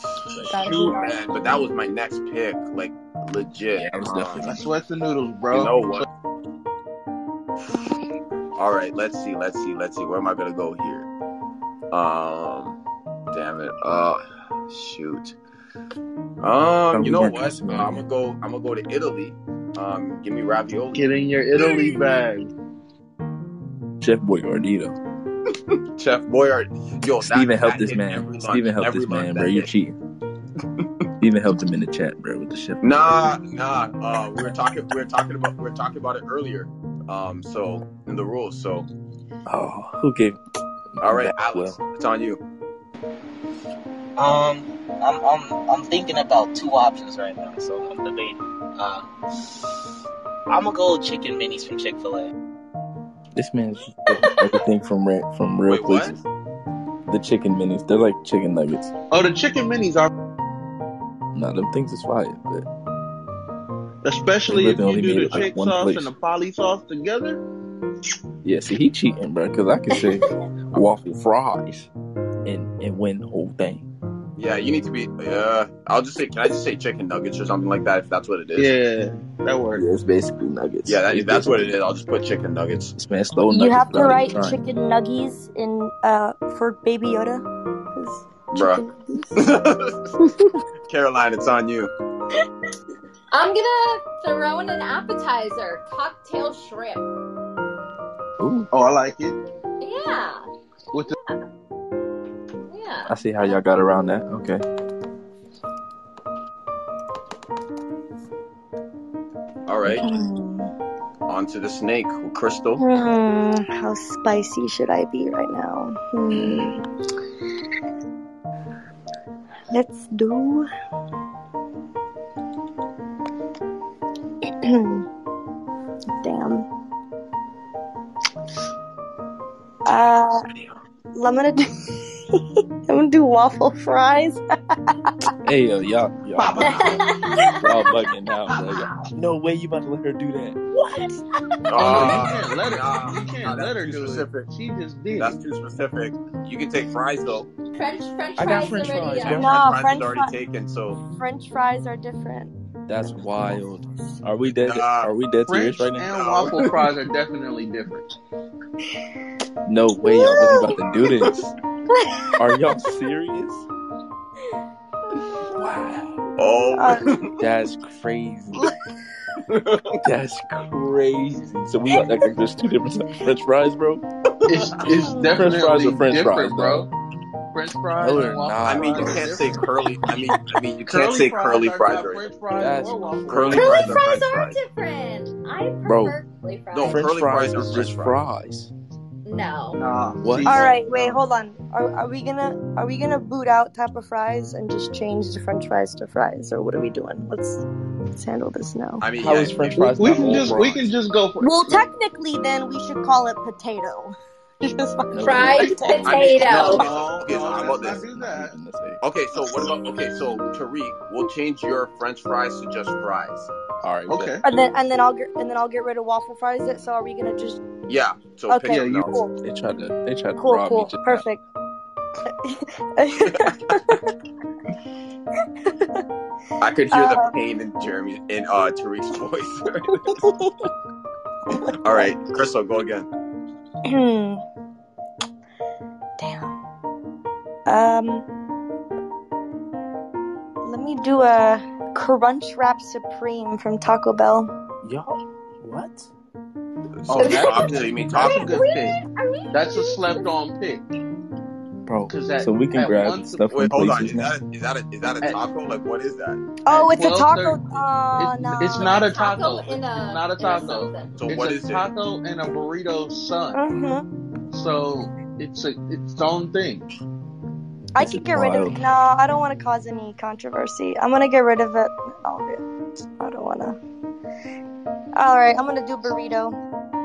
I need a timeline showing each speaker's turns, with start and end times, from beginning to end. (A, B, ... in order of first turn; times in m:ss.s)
0:00.4-0:04.5 A
0:00.5-0:01.3 B
0:03.7-0:04.7 C
0:04.4-0:06.0 D
0:05.5-0:06.1 A
0:08.6-0:11.1 A
0:11.9-0:12.8 A
0:13.3-0:15.4 A
0:16.4-0:21.0 A
0:16.9-0:18.0 C
0:20.9-0:22.5 D
0:21.6-0:21.9 A
0:24.0-0:24.9 C
0:26.0-0:29.7 A
0:27.2-0:30.0 C
0:31.2-0:33.2 C
0:32.8-0:38.9 A
0:39.5-0:40.4 C
0:41.0-0:41.8 C
0:41.0-0:42.4 A
0:44.2-0:49.1 E
0:50.5-0:52.3 E
0:53.4-0:56.2 C
0:55.7-0:56.1 A
0:57.1-0:58.9 C
0:59.1-1:00.1 D
1:01.3-1:02.6 C
1:04.0-1:07.4 D
1:04.5-1:06.1 C
1:08.4-1:11.9 C
1:12.4-1:13.9 C
1:14.4-1:18.7 A
1:18.6-1:19.8 D
1:19.8-1:21.8 C
1:20.9-1:22.9 A
1:23.0-1:24.6 C
1:23.5-1:29.4 B
1:28.5-1:28.8 A
1:29.4-1:30.0 A
1:30.9-1:31.9 A
1:33.3-1:37.1 F
1:38.4-1:38.7 C
1:38.7-1:39.4 D
1:39.8-1:40.4 F
1:41.1-1:41.4 F
1:42.7-1:43.1 F
1:43.1-1:44.6 C
1:49.7-1:50.1 A
1:49.9-1:50.7 B
1:51.3-1:52.8 A
1:52.8-1:56.8 B
1:59.7-2:00.7 B
2:04.4-2:05.0 B
2:06.2-2:06.7 B
2:09.9-2:10.4 B
2:11.1-2:11.6 B
2:12.4-2:14.4 B
2:15.4-2:20.6 C
2:16.4-2:17.5 D
2:16.6-2:17.6 F
2:21.7-2:24.5 A
2:21.8-2:25.4 D
2:25.2-2:27.5 A
2:27.8-2:29.5 F
2:28.4-2:29.5 C
2:29.2-2:30.3 B
2:29.3-2:31.0 A
2:31.0-2:32.5 B
2:32.9-2:36.1 C
2:34.6-2:35.1 A
2:35.5-2:38.1 D
2:36.1-2:36.6 A
2:39.6-2:41.5 C
2:40.1-2:40.7 B
2:42.4-2:43.6 C
2:45.5-2:46.2 C
2:46.4-2:47.3 A
2:46.8-2:47.1 B
2:47.4-2:48.7 C
2:49.5-2:50.0 A
2:50.0-2:54.0 C
2:54.5-2:56.9 D
2:55.0-2:55.4 B
2:55.3-2:56.9 C
2:57.5-2:59.6 D
2:58.0-2:59.6 C
2:58.6-3:02.2 A
3:00.9-3:03.9 D
3:02.5-3:04.0 C
3:03.3-3:04.6 A
3:03.6-3:07.0 F
3:05.8-3:06.2 C
3:06.7-3:08.2 A
3:06.8-3:08.7 C
3:09.2-3:09.8 F
3:09.7-3:11.2 D
3:10.2-3:10.7 C
3:10.4-3:17.6 B
3:18.1-3:19.1 B
3:19.0-3:20.0 A
3:19.2-3:20.9 C
3:19.9-3:21.8 D
3:21.4-3:26.6 B
3:25.1-3:26.8 C
3:25.2-3:26.8 F
3:26.1-3:28.5 D
3:26.1-3:28.0 A
3:27.5-3:29.0 C
3:29.0-3:33.5 A
3:33.8-3:34.4 C
3:34.1-3:34.4 D
3:34.4-3:37.6 B
3:37.9-3:39.2 A
3:38.5-3:39.3 B
3:38.7-3:39.1 D
3:39.4-3:41.3 C
3:40.4-3:41.4 B
3:42.4-3:44.0 B
3:43.2-3:43.5 A
3:45.7-3:46.0 B
3:46.6-3:50.0 A
3:46.9-3:47.3 B
3:50.1-3:50.5 B
3:51.6-3:53.1 A
3:53.8-3:54.4 B
3:56.2-3:56.5 B
3:57.7-3:58.2 B
4:00.6-4:04.5 B
4:04.8-4:06.1 C
4:07.0-4:08.6 A
4:07.1-4:09.0 D
4:07.2-4:10.3 F
4:09.5-4:10.8 D
4:11.9-4:14.4 C
4:12.1-4:13.5 D
4:13.5-4:16.4 A
4:16.7-4:18.9 B
4:16.7-4:23.6 D
4:18.8-4:21.2 F
4:21.2-4:21.9 A
4:23.5-4:24.0 B
4:24.5-4:26.9 D
4:27.9-4:32.6 B
4:28.0-4:28.8 C
4:33.2-4:33.8 B
4:35.2-4:36.6 B